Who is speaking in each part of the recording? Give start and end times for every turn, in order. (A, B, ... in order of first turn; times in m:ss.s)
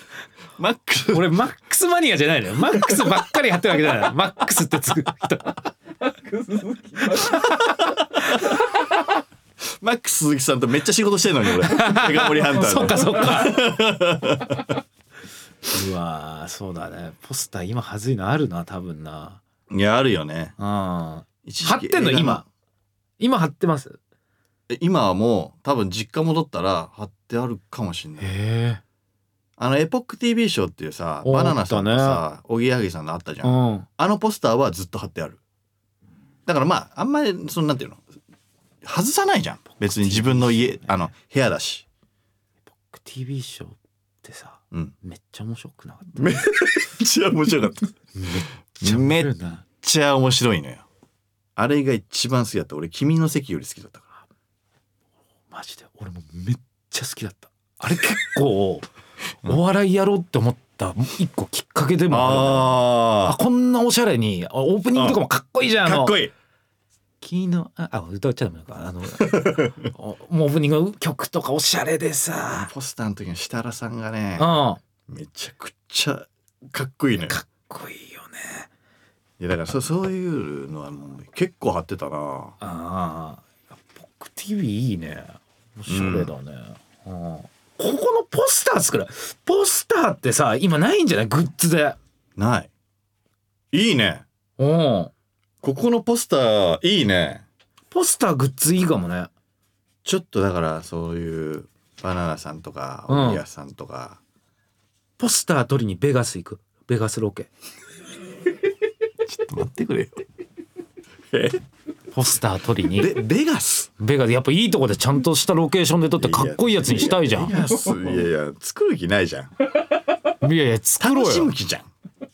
0:00.6-0:01.4 A
0:01.1-0:05.6 B
0:07.0-0:07.6 B
0:07.3-0:07.8 A
0:09.8-0:14.8 A
0:11.6-0:13.6 B
0:15.7-0:19.4 B
0:19.7-0:20.5 A
0:20.6-0:22.4 B
0:21.4-0:22.4 A
0:23.2-0:24.0 B
0:24.7-0:28.3 A
0:28.2-0:28.8 B
0:29.6-0:35.4 A
0:31.2-0:32.2 B
0:33.4-0:33.8 B
0:36.4-0:38.0 A
0:38.8-0:41.8 A
0:39.7-0:41.1 B
0:42.9-0:46.4 B
0:46.2-0:47.9 A
0:48.2-0:49.6 B
0:48.8-0:50.8 A
0:51.6-0:54.2 A
0:55.5-0:58.8 B
0:59.4-1:06.2 B
1:02.1-1:03.4 A
1:04.9-1:05.2 A
1:05.8-1:06.3 A
1:07.2-1:12.7 B
1:09.2-1:09.7 A
1:12.5-1:14.5 A
1:14.4-1:14.8 B
1:15.1-1:17.4 A
1:17.2-1:18.7 B
1:19.4-1:22.6 A
1:22.6-1:32.0 B
1:25.9-1:26.3 A
1:32.4-1:32.7 A
1:33.7-1:34.2 A
1:34.6-1:35.1 B
1:35.6-1:37.4 A
1:37.9-1:39.3 B
1:40.0-1:44.2 A
1:43.1-1:43.4 B
1:45.2-1:47.5 B
1:49.2-1:50.2 A
1:51.3-1:51.6 A
1:52.1-1:53.2 B
1:52.9-1:53.9 A
1:54.0-1:57.6 B
1:56.2-1:59.5 A
2:00.3-2:01.5 B
2:01.0-2:01.9 A